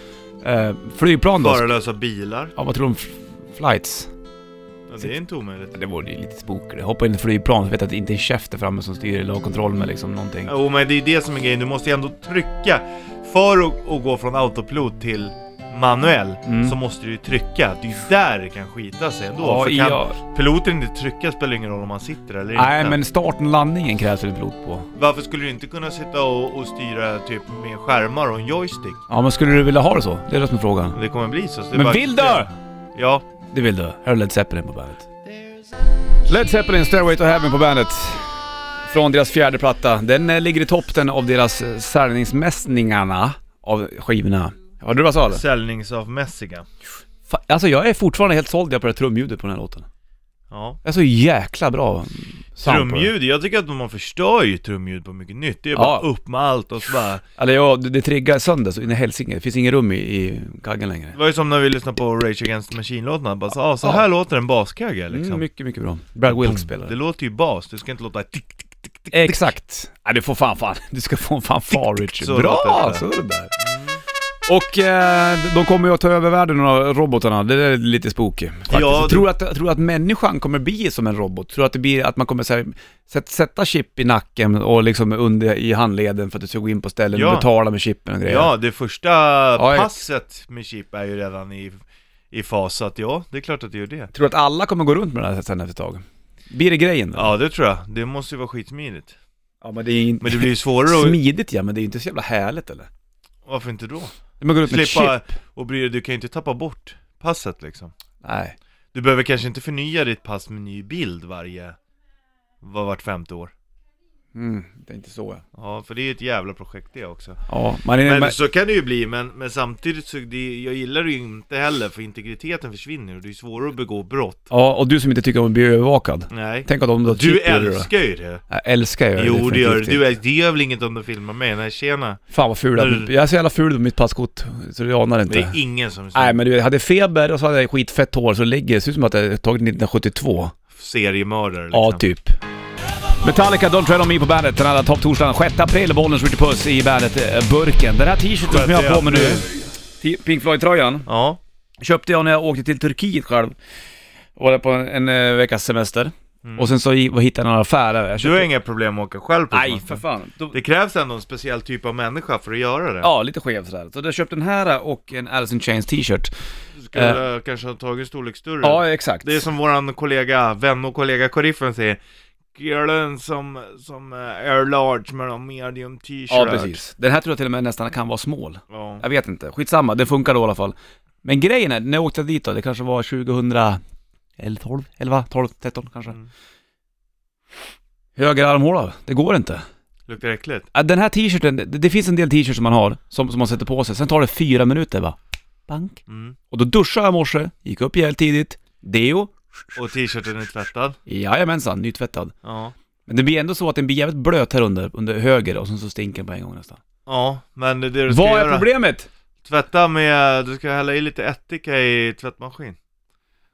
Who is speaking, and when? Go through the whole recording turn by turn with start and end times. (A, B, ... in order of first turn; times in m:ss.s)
0:00.4-0:01.7 A
0:01.4-0:02.5 B
0:02.6-0:04.1 A
0:04.9-0:05.8 B
0:05.7-0:10.5 A
0:10.5-0:23.0 B
0:16.5-0:16.8 A
0:19.4-0:20.2 A
0:22.6-0:24.9 A
0:25.0-0:29.0 B
0:29.1-0:31.0 A
0:31.0-0:33.2 B
0:31.7-0:32.5 A
0:33.5-0:35.1 A
0:36.2-0:38.4 A
0:38.9-0:45.4 A
0:45.3-0:46.7 B
0:47.3-0:49.9 A
0:50.5-0:50.8 B
0:50.8-0:53.1 A
0:52.6-0:57.2 B
0:55.8-0:56.1 A
0:57.4-1:01.2 A
1:01.2-1:05.4 B
1:05.1-1:06.9 A
1:06.3-1:09.5 B
1:09.1-1:13.5 A
1:11.7-1:13.0 B
1:13.6-1:14.0 B
1:14.5-1:28.5 A
1:18.7-1:19.3 B
1:27.1-1:27.5 B
1:28.3-1:34.1 B
1:29.6-1:30.0 A
1:34.1-1:37.3 A
1:37.2-1:39.2 B
1:39.6-1:42.9 A
1:40.2-1:41.2 B
1:43.4-1:44.2 B
1:44.4-1:45.2 A
1:44.7-1:47.9 B
1:48.2-1:48.6 A
1:48.9-1:51.8 B
1:52.6-1:53.5 B
1:54.4-1:55.4 A
1:55.6-1:57.4 B
1:57.5-1:58.4 A
1:58.0-2:04.5 B
2:04.5-2:07.9 A
2:06.3-2:08.4 B
2:08.5-2:10.0 A
2:09.2-2:12.2 B
2:12.3-2:15.6 A
2:12.8-2:13.1 B
2:15.3-2:16.4 B
2:16.1-2:20.5 A
2:20.7-2:22.0 B
2:21.7-2:22.4 A
2:23.2-2:31.1 A
2:28.5-2:29.4 B
2:31.1-2:31.4 B
2:31.8-2:33.5 A
2:34.4-2:38.5 A
2:36.4-2:36.7 B
2:38.2-2:40.0 B
2:39.5-2:40.6 A
2:40.5-2:43.1 B
2:43.0-2:46.3 A
2:46.8-2:52.0 B
2:46.9-2:47.2 A
2:48.6-2:49.5 A
2:52.6-2:56.8 B
2:56.3-3:03.8 A
2:58.7-2:59.0 B
3:04.4-3:06.2 A
3:08.2-3:09.6 A
3:10.1-3:10.7 B
3:10.7-3:15.2 A
3:15.7-3:16.0 A
3:16.1-3:16.4 B
3:16.5-3:19.3 A
3:19.8-3:21.0 B
3:21.1-3:22.3 A
3:22.4-3:22.7 B
3:23.1-3:26.8 A
3:27.1-3:28.7 B
3:28.1-3:29.1 A
3:29.4-3:32.8 B